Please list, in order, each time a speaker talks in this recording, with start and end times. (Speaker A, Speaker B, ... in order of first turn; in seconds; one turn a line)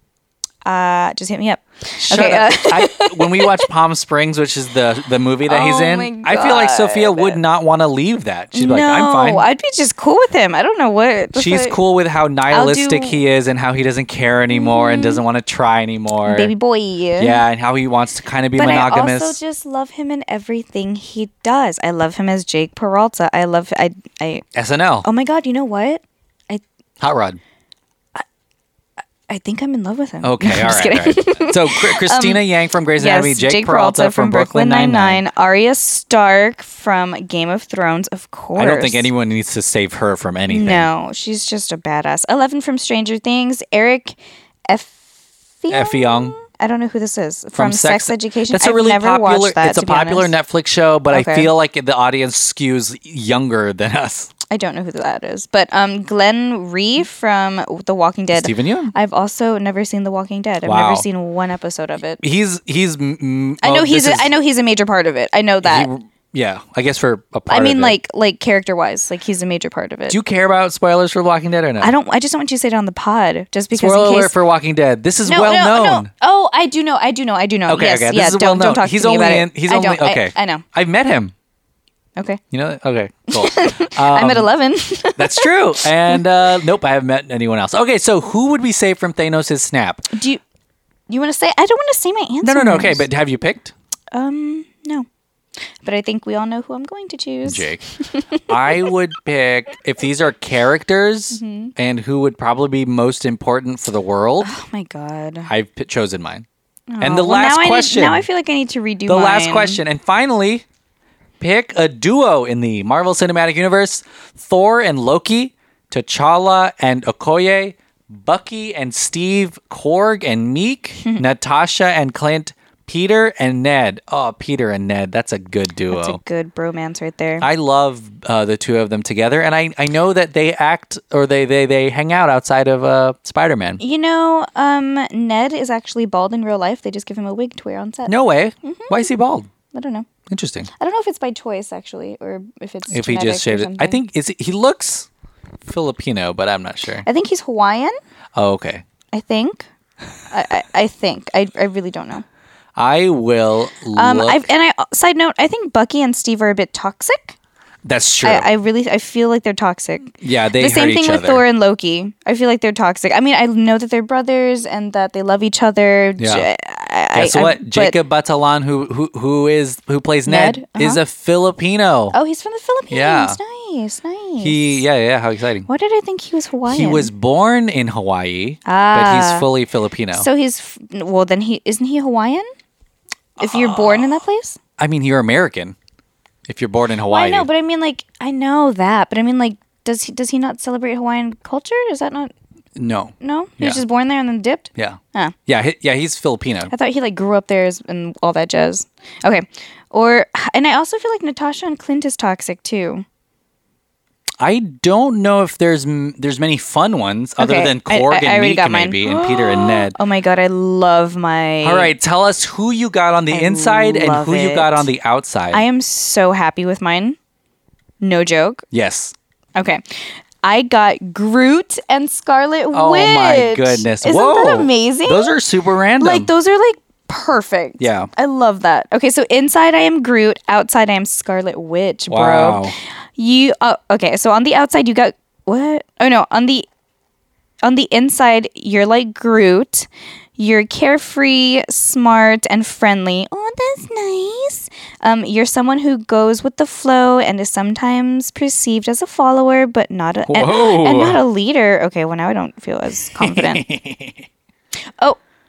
Speaker A: 0.7-3.7
Speaker B: 2.0-9.4
Speaker A: 5.5-7.4
Speaker A: 8.5-11.8
Speaker B: 11.4-16.5
Speaker A: 12.5-13.2
Speaker A: 14.5-15.2
Speaker A: 16.2-17.4
Speaker B: 17.2-19.4
Speaker A: 18.6-24.4
Speaker B: 24.6-25.1
Speaker A: 25.0-26.6
Speaker B: 27.0-27.4
Speaker A: 29.3-32.5
Speaker B: 30.2-35.2
Speaker A: 33.0-39.1
Speaker B: 38.6-40.9
Speaker A: 40.5-44.2
Speaker A: 44.7-45.0
Speaker A: 45.6-50.4
Speaker B: 45.7-46.4
Speaker B: 47.5-54.3
Speaker A: 51.1-51.5
Speaker A: 54.5-62.2
Speaker B: 58.3-58.9
Speaker B: 60.6-61.1
Speaker B: 62.2-64.3
Speaker A: 63.6-65.9
Speaker B: 65.6-68.0
Speaker A: 67.5-70.2
Speaker B: 70.1-71.9
Speaker A: 71.8-74.3
Speaker B: 73.7-76.1
Speaker A: 75.2-80.6
Speaker B: 77.7-81.3
Speaker B: 82.5-84.5
Speaker A: 83.3-86.2
Speaker B: 85.2-90.1
Speaker A: 90.1-90.4
Speaker A: 91.1-93.0
Speaker B: 92.4-93.7
Speaker A: 94.1-95.1
Speaker A: 95.8-98.9
Speaker B: 97.5-97.8
Speaker B: 98.4-104.5
Speaker A: 101.3-101.7
Speaker A: 104.4-105.5
Speaker B: 105.5-106.5
Speaker A: 106.9-109.8
Speaker B: 107.0-108.3
Speaker B: 109.1-110.7
Speaker B: 111.4-126.2
Speaker A: 125.9-127.5
Speaker B: 127.4-133.8
Speaker A: 133.8-139.1
Speaker B: 138.1-139.5
Speaker A: 139.7-140.1
Speaker B: 140.3-140.7
Speaker A: 140.8-144.0
Speaker B: 142.9-145.1
Speaker B: 145.7-147.1
Speaker A: 147.0-148.0
Speaker B: 148.4-148.8
Speaker A: 149.1-149.7
Speaker A: 150.3-152.2
Speaker B: 152.8-154.5
Speaker A: 153.9-157.4
Speaker B: 157.8-158.5
Speaker A: 158.2-168.0
Speaker B: 160.2-161.4
Speaker B: 166.2-166.5
Speaker B: 167.2-172.2
Speaker A: 170.3-171.0
Speaker A: 172.1-174.8
Speaker B: 172.9-173.4
Speaker B: 174.4-175.7
Speaker A: 175.7-177.1
Speaker B: 176.7-180.3
Speaker A: 178.7-179.5
Speaker A: 180.1-182.5
Speaker B: 183.4-184.2
Speaker A: 183.4-184.6
Speaker B: 184.8-185.8
Speaker B: 186.5-187.5
Speaker A: 187.1-192.3
Speaker B: 192.8-193.8
Speaker A: 193.2-195.3
Speaker B: 194.8-196.7
Speaker A: 196.7-203.0
Speaker B: 204.4-210.0
Speaker A: 207.4-211.9
Speaker B: 211.6-215.6
Speaker A: 213.3-214.9
Speaker A: 215.5-217.2
Speaker A: 218.0-218.7
Speaker B: 218.7-219.1
Speaker A: 219.6-225.4
Speaker B: 222.7-226.3
Speaker A: 226.0-236.7
Speaker B: 227.8-228.1
Speaker B: 232.1-232.8
Speaker A: 237.6-253.6
Speaker B: 250.3-251.2
Speaker B: 253.1-254.3